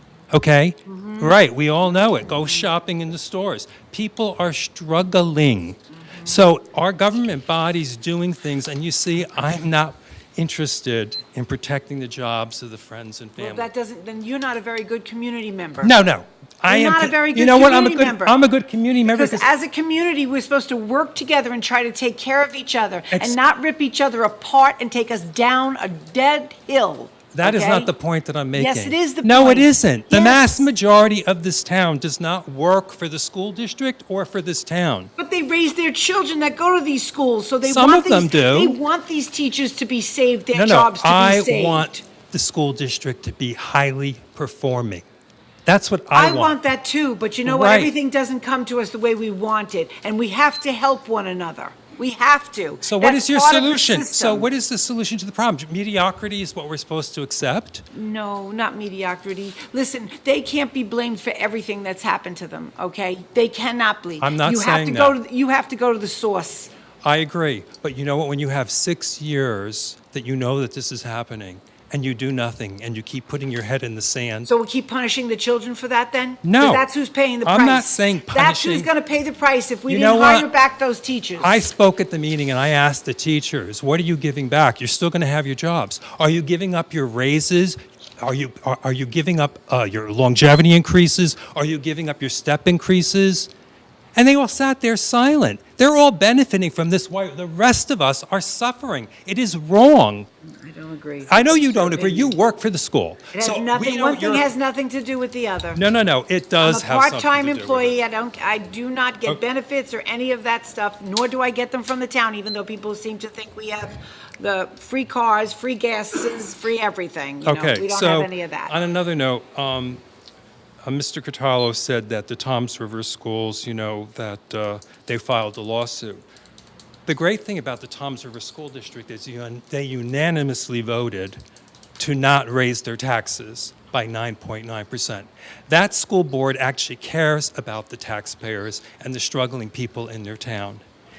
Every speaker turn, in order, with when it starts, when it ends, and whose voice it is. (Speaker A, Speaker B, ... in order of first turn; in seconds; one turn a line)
Speaker A: 0.3-13.7
Speaker B: 0.8-1.4
Speaker B: 2.3-2.7
Speaker B: 5.9-6.4
Speaker B: 13.4-15.9
Speaker A: 15.8-19.5
Speaker B: 16.7-18.4
Speaker B: 19.0-27.9
Speaker A: 23.1-23.4
Speaker A: 27.3-35.1
Speaker B: 28.5-30.7
Speaker B: 35.2-42.0
Speaker A: 37.6-38.8
Speaker A: 40.5-45.0
Speaker A: 45.6-46.6
Speaker B: 46.1-54.5
Speaker A: 47.4-47.9
Speaker A: 52.8-57.9
Speaker B: 57.9-66.7
Speaker A: 64.2-65.2
Speaker A: 67.0-74.5
Speaker B: 74.5-81.6
Speaker A: 76.4-76.9
Speaker A: 77.4-78.9
Speaker A: 79.9-80.5
Speaker A: 81.4-93.5
Speaker A: 94.1-100.3
Speaker B: 100.4-102.4
Speaker A: 101.2-104.5
Speaker B: 103.3-105.8
Speaker A: 105.7-108.0
Speaker B: 106.6-118.7
Speaker A: 117.4-120.0
Speaker A: 120.8-126.2
Speaker A: 127.0-131.4
Speaker A: 132.0-140.8